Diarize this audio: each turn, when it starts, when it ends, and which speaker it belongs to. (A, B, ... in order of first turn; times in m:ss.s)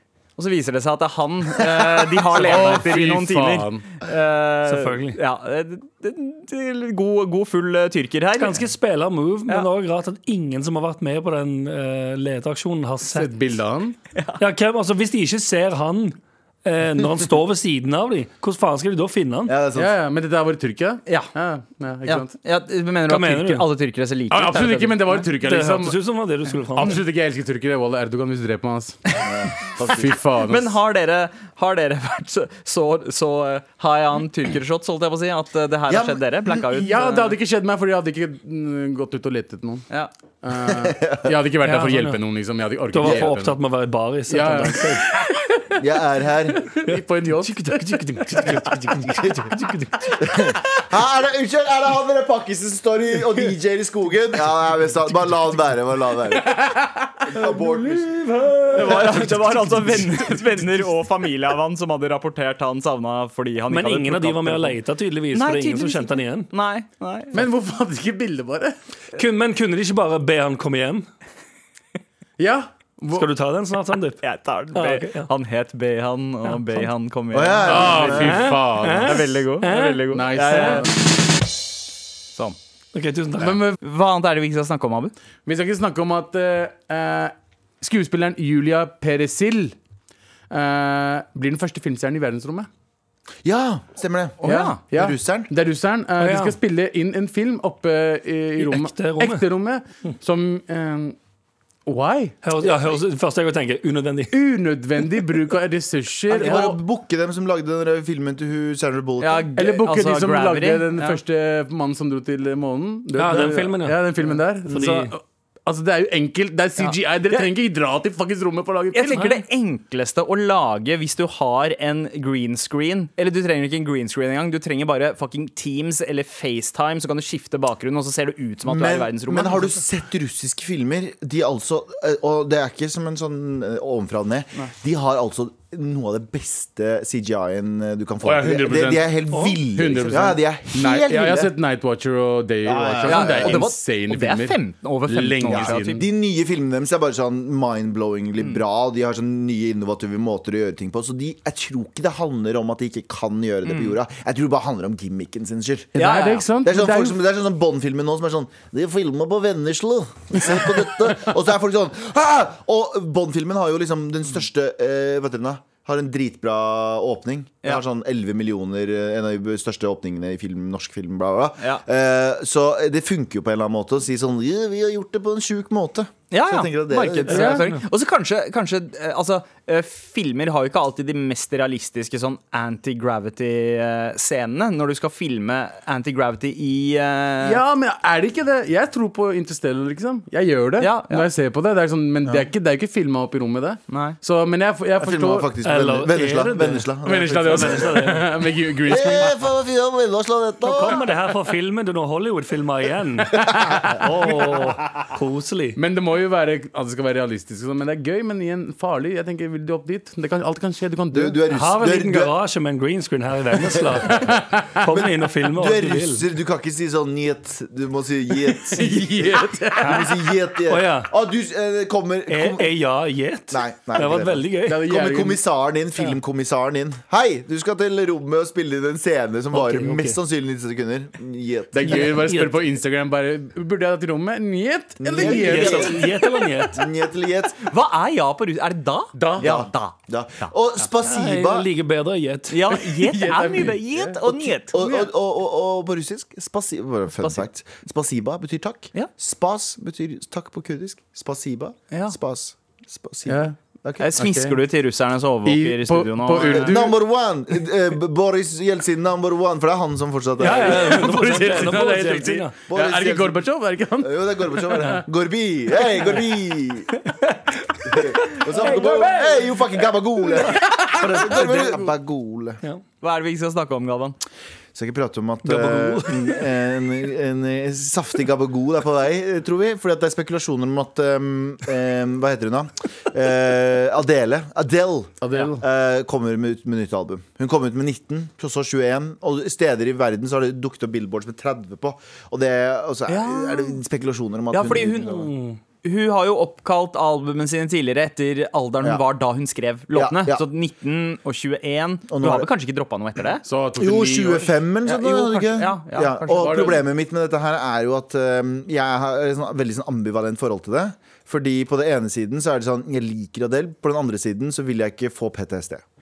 0:00.4-0:08.6 A
0:01.7-0:02.1 B
0:02.3-0:03.8 C
0:04.6-0:05.2 D
0:08.4-0:13.3 D
0:13.1-0:14.0 C
0:14.4-0:19.6 D
0:19.5-0:19.9 B
0:19.7-0:22.3 C
0:21.0-0:21.3 A
0:22.0-0:25.2 A
0:23.1-0:23.7 D
0:24.3-0:26.0 C
0:25.0-0:27.0 D
0:26.7-0:29.0 C
0:29.2-0:30.2 B
0:29.8-0:30.8 C
0:30.4-0:37.4 A
0:35.9-0:36.6 B
0:36.7-0:39.8 C
0:40.4-0:43.6 C
0:40.6-0:41.4 B
0:41.6-0:42.2 D
0:42.9-0:45.1 D
0:43.0-0:43.3 B
0:44.3-0:45.8 C
0:45.8-0:46.7 B
0:46.7-0:50.3 C
0:46.8-0:49.8 D
0:50.2-0:56.6 B
0:56.4-0:57.7 C
0:57.2-0:58.4 B
0:58.3-0:59.6 D
0:58.7-1:04.8 A
0:59.0-0:59.4 C
1:03.7-1:06.5 D
1:05.3-1:07.4 A
1:07.3-1:08.8 C
1:09.1-1:11.1 D
1:12.4-1:13.3 C
1:13.1-1:14.2 D
1:14.2-1:18.4 A
1:14.7-1:15.3 D
1:17.3-1:18.5 B
1:17.6-1:20.9 C
1:18.1-1:20.8 D
1:18.9-1:21.0 A
1:22.9-1:23.6 D
1:23.4-1:23.8 C
1:23.8-1:25.1 A
1:25.4-1:29.8 C
1:30.5-1:32.7 C
1:33.4-1:35.5 B
1:34.4-1:41.2 C
1:34.4-1:34.8 A
1:36.2-1:36.6 D
1:38.6-1:39.4 D
1:41.8-1:42.4 C
1:42.4-1:44.4 D
1:44.3-1:46.8 C
1:46.3-1:49.5 B
1:49.2-1:51.2 A
1:49.6-1:59.2 C
1:53.2-1:54.1 D
1:54.6-1:55.1 D
1:56.8-1:57.5 A
1:58.9-2:09.8 A
1:59.1-1:59.4 D
2:08.6-2:21.5 B
2:18.2-2:26.0 C
2:19.3-2:19.6 D
2:22.6-2:23.6 B
2:23.0-2:26.1 A
2:25.4-2:35.9 B
2:33.6-2:34.0 A
2:36.0-2:36.5 A
2:36.0-2:37.2 C
2:36.6-2:57.6 B
2:56.3-3:07.6 A
2:57.3-2:57.8 D
2:57.3-2:57.6 C
3:07.4-3:15.5 C
3:10.8-3:11.3 A
3:13.9-3:14.2 A
3:15.0-3:18.0 B
3:15.6-3:16.9 D
3:17.0-3:19.4 C
3:17.4-3:18.3 D
3:18.8-3:21.0 B
3:20.6-3:25.8 D
3:23.4-3:24.0 B
3:25.8-3:31.5 C
3:31.1-3:32.3 B
3:31.5-3:36.2 D
3:33.5-3:42.7 B
3:34.1-3:34.6 C
3:38.7-3:40.2 C
3:40.7-3:41.1 D
3:42.3-3:44.8 D
3:43.5-3:52.2 B
3:44.6-3:45.4 C
3:49.5-3:50.2 D
3:51.7-3:56.0 C
3:51.9-3:52.6 D
3:55.0-3:56.1 B
3:55.2-3:56.9 D
3:56.7-3:57.6 B
3:57.6-4:00.5 A
3:59.2-3:59.5 C
3:59.4-4:01.7 B
4:01.0-4:02.7 D
4:02.5-4:04.9 A
4:02.7-4:05.0 C
4:04.7-4:14.1 B
4:11.9-4:12.2 A
4:13.3-4:13.6 C
4:14.0-4:16.8 A
4:14.2-4:14.6 C
4:15.4-4:17.0 C
4:16.4-4:21.1 B
4:20.4-4:22.5 D
4:20.5-4:25.0 C
4:22.7-4:23.4 B
4:24.0-4:27.0 B
4:27.0-4:29.2 D
4:27.8-4:32.6 B
4:28.6-4:29.0 C
4:30.5-4:31.9 C
4:33.0-4:34.2 A
4:34.7-4:55.3 B
4:35.4-4:36.5 D
4:45.2-4:45.6 C
4:53.1-4:53.8 A
4:54.5-4:55.2 A
4:55.0-4:55.6 D
4:55.8-5:03.4 A
4:59.9-5:00.4 B
5:02.1-5:02.5 B
5:03.4-5:04.6 C
5:03.8-5:15.8 B
5:04.8-5:06.8 A
5:06.4-5:06.8 C